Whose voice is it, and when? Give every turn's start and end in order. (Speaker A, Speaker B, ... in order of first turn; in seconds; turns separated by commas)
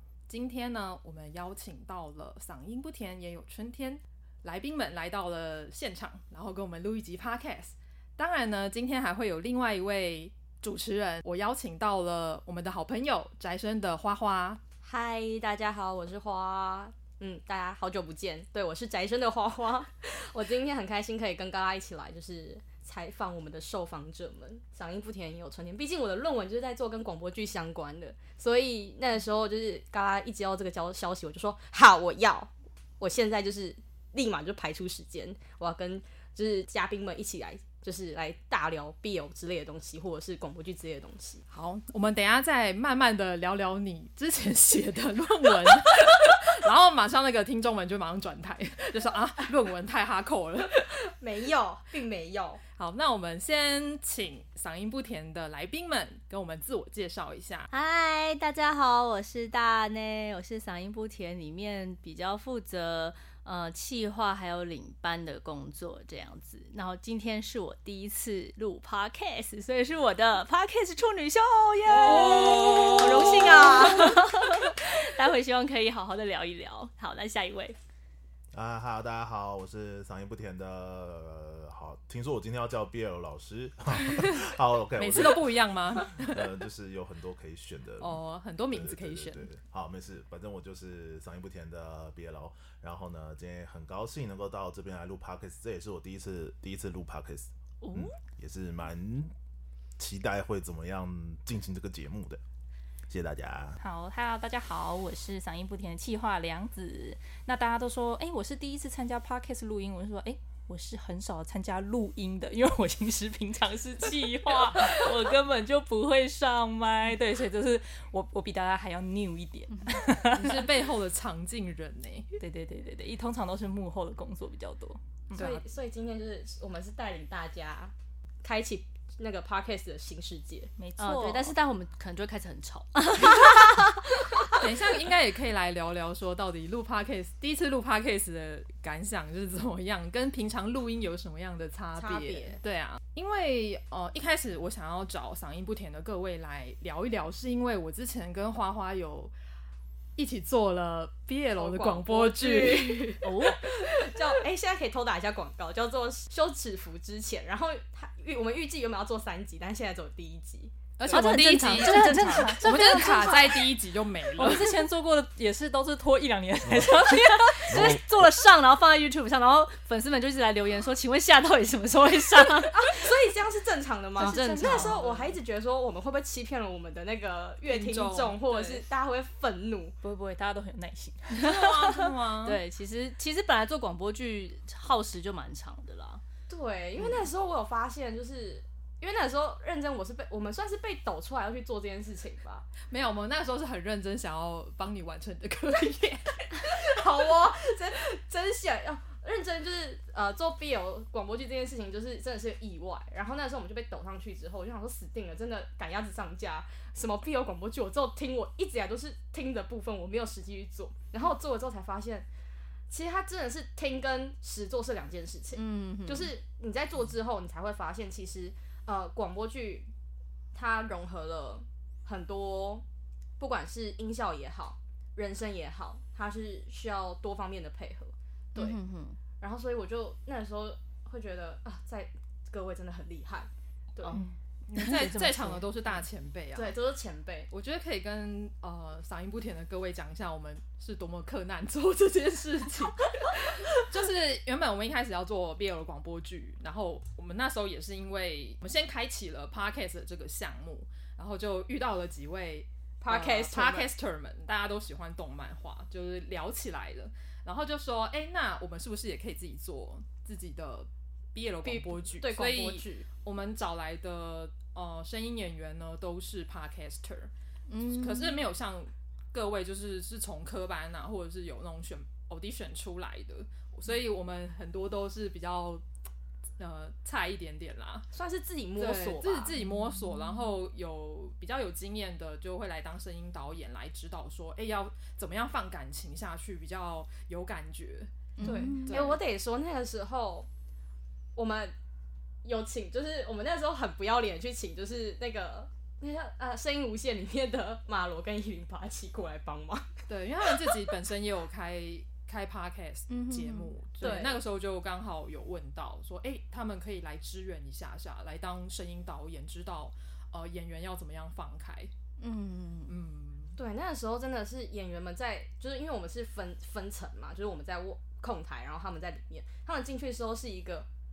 Speaker A: 0.3-14.6, Speaker B: 14.8-41.4, Speaker A: 41.5-50.9, Speaker B: 51.0-52.6, Speaker A: 52.8-57.7, Speaker C: 57.7-77.8, Speaker B: 72.0-74.2, Speaker A: 72.1-73.3, Speaker D: 78.5-88.2, Speaker A: 84.0-84.4, Speaker A: 85.0-86.5, Speaker A: 88.0-89.5, Speaker D: 88.7-99.3, Speaker C: 97.8-98.1, Speaker D: 100.0-102.4, Speaker D: 103.1-103.8, Speaker E: 103.8-120.7, Speaker A: 120.3-122.4, Speaker E: 122.4-125.5, Speaker A: 125.3-125.6, Speaker B: 125.3-130.7, Speaker E: 130.8-131.6, Speaker C: 131.0-134.5, Speaker A: 134.6-149.3, Speaker B: 142.0-142.6, Speaker A: 150.2-153.2, Speaker B: 151.6-161.3, Speaker C: 153.2-153.7, Speaker A: 161.0-164.7, Speaker C: 161.1-163.6, Speaker E: 161.5-163.5, Speaker E: 164.4-168.0, Speaker D: 166.7-166.9, Speaker C: 167.0-173.0, Speaker D: 167.7-168.0, Speaker B: 172.7-179.9, Speaker C: 174.2-175.0, Speaker E: 174.2-174.9, Speaker A: 174.7-175.3, Speaker A: 177.6-178.8, Speaker E: 180.0-182.1, Speaker A: 181.4-182.6, Speaker C: 182.4-186.2, Speaker B: 186.5-192.7, Speaker A: 192.9-196.8, Speaker B: 196.6-212.3, Speaker B: 212.9-219.9, Speaker C: 215.5-216.3, Speaker B: 220.5-222.8, Speaker B: 223.4-228.8, Speaker C: 228.5-229.2, Speaker B: 229.4-234.2, Speaker E: 234.1-235.6, Speaker A: 234.7-236.7, Speaker B: 236.5-237.5, Speaker A: 237.5-267.3, Speaker B: 253.1-253.9, Speaker B: 261.6-263.1, Speaker C: 267.7-268.4, Speaker A: 267.8-275.8, Speaker A: 276.6-278.1, Speaker B: 278.1-279.5, Speaker A: 278.8-288.1, Speaker C: 288.4-289.2, Speaker E: 288.4-288.9, Speaker B: 288.4-290.5, Speaker A: 288.8-289.2, Speaker B: 291.4-291.7, Speaker B: 292.4-300.7, Speaker A: 300.1-311.9, Speaker C: 303.1-303.7, Speaker B: 304.0-304.4, Speaker C: 312.2-312.9, Speaker A: 312.9-313.6, Speaker B: 313.6-320.9